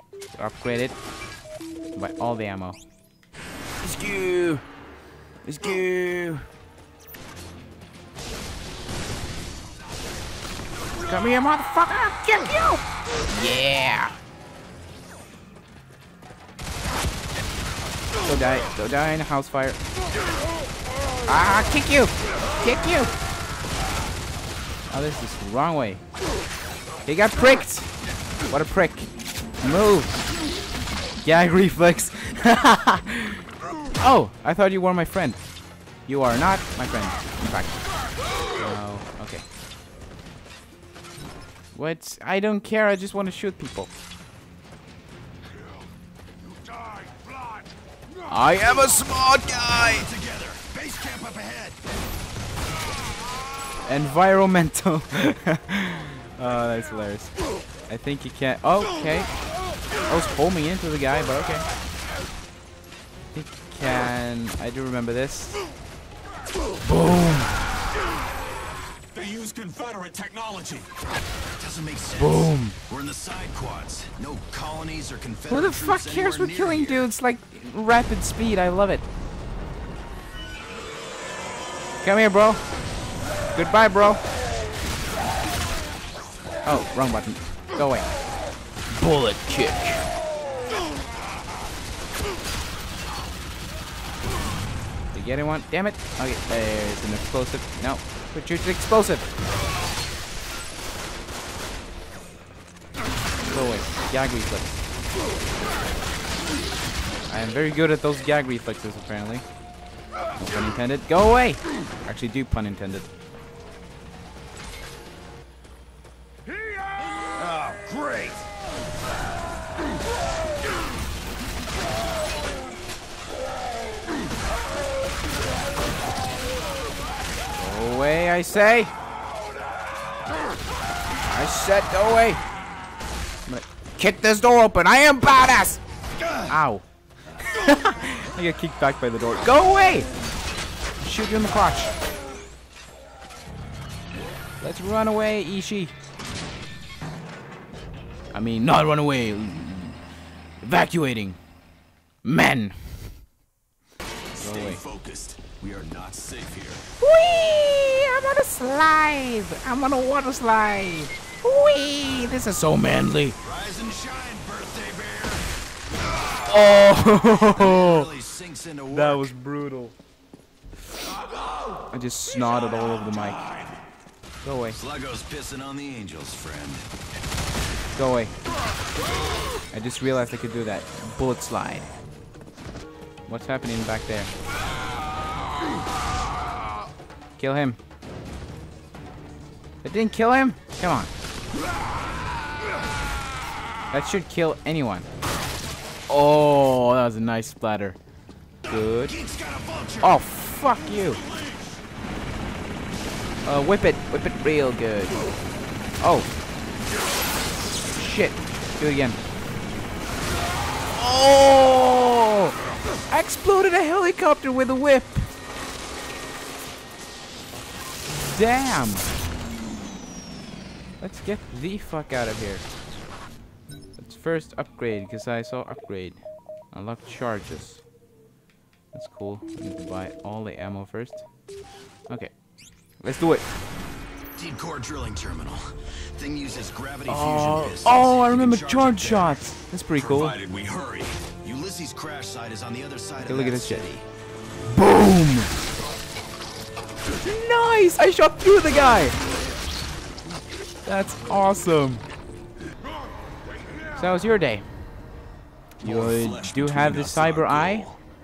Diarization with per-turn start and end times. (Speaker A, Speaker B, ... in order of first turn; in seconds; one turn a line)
Speaker A: 0.3-1.0
Speaker A: 2.0-2.8
Speaker A: 3.8-4.6
Speaker A: 5.5-6.5
Speaker A: 11.0-14.2
Speaker A: 18.2-19.8
Speaker A: 21.3-23.1
Speaker A: 24.9-26.0
Speaker A: 27.1-27.9
Speaker A: 28.5-29.1
Speaker A: 29.6-30.2
Speaker A: 31.2-33.4
Speaker A: 34.0-35.4
Speaker A: 36.1-37.9
Speaker A: 38.5-39.5
Speaker A: 41.7-43.9
Speaker A: 48.3-50.1
Speaker B: 49.6-51.8
Speaker A: 53.8-57.3
Speaker A: 57.9-59.3
Speaker A: 60.1-61.6
Speaker A: 63.3-65.6
Speaker A: 66.8-67.5
Speaker C: 69.1-70.9
Speaker B: 71.6-77.1
Speaker A: 72.2-72.8
Speaker A: 75.5-79.1
Speaker A: 82.0-82.6
Speaker A: 83.5-84.2
Speaker A: 86.7-88.1
Speaker A: 88.9-90.1
Speaker A: 95.1-99.3
Speaker A: 103.5-104.8
Speaker A: 107.3-109.5
Speaker A: 110.4-113.1
Speaker B: 116.5-118.5
Speaker A: 127.6-128.9
Speaker A: 131.2-132.4
Speaker A: 133.5-135.8
Speaker B: 136.2-136.5
Speaker A: 136.5-136.8
Speaker A: 137.4-140.1
Speaker A: 141.0-141.9
Speaker A: 144.6-145.9
Speaker A: 148.3-150.0
Speaker A: 150.6-151.4
Speaker A: 152.2-153.0
Speaker C: 154.3-156.8
Speaker A: 154.4-154.8
Speaker A: 157.0-163.4
Speaker B: 163.4-165.5
Speaker A: 166.5-168.1
Speaker B: 167.0-169.3
Speaker A: 168.9-169.9
Speaker A: 171.9-173.4
Speaker C: 172.7-173.8
Speaker A: 174.4-174.8
Speaker B: 174.7-176.9
Speaker A: 178.0-178.3
Speaker A: 179.7-181.9
Speaker A: 183.3-184.3
Speaker A: 187.4-187.8
Speaker A: 189.8-191.1
Speaker A: 193.9-195.1
Speaker A: 196.1-198.0
Speaker A: 198.7-199.1
Speaker B: 198.7-200.2
Speaker A: 200.0-201.2
Speaker C: 200.7-201.8
Speaker A: 203.5-205.2
Speaker A: 206.0-206.3
Speaker A: 207.9-209.2
Speaker A: 210.9-212.6
Speaker A: 213.1-215.3
Speaker A: 218.3-219.1
Speaker A: 221.0-222.6
Speaker A: 224.0-226.2
Speaker A: 226.7-227.8
Speaker A: 228.9-231.2
Speaker A: 233.0-233.4
Speaker B: 234.4-239.4
Speaker A: 237.1-240.4
Speaker C: 239.9-241.2
Speaker B: 241.4-244.1
Speaker A: 243.2-243.9
Speaker A: 244.7-245.5
Speaker A: 247.1-249.2
Speaker A: 250.9-252.0
Speaker A: 253.9-254.7
Speaker A: 255.8-257.9
Speaker C: 255.8-258.0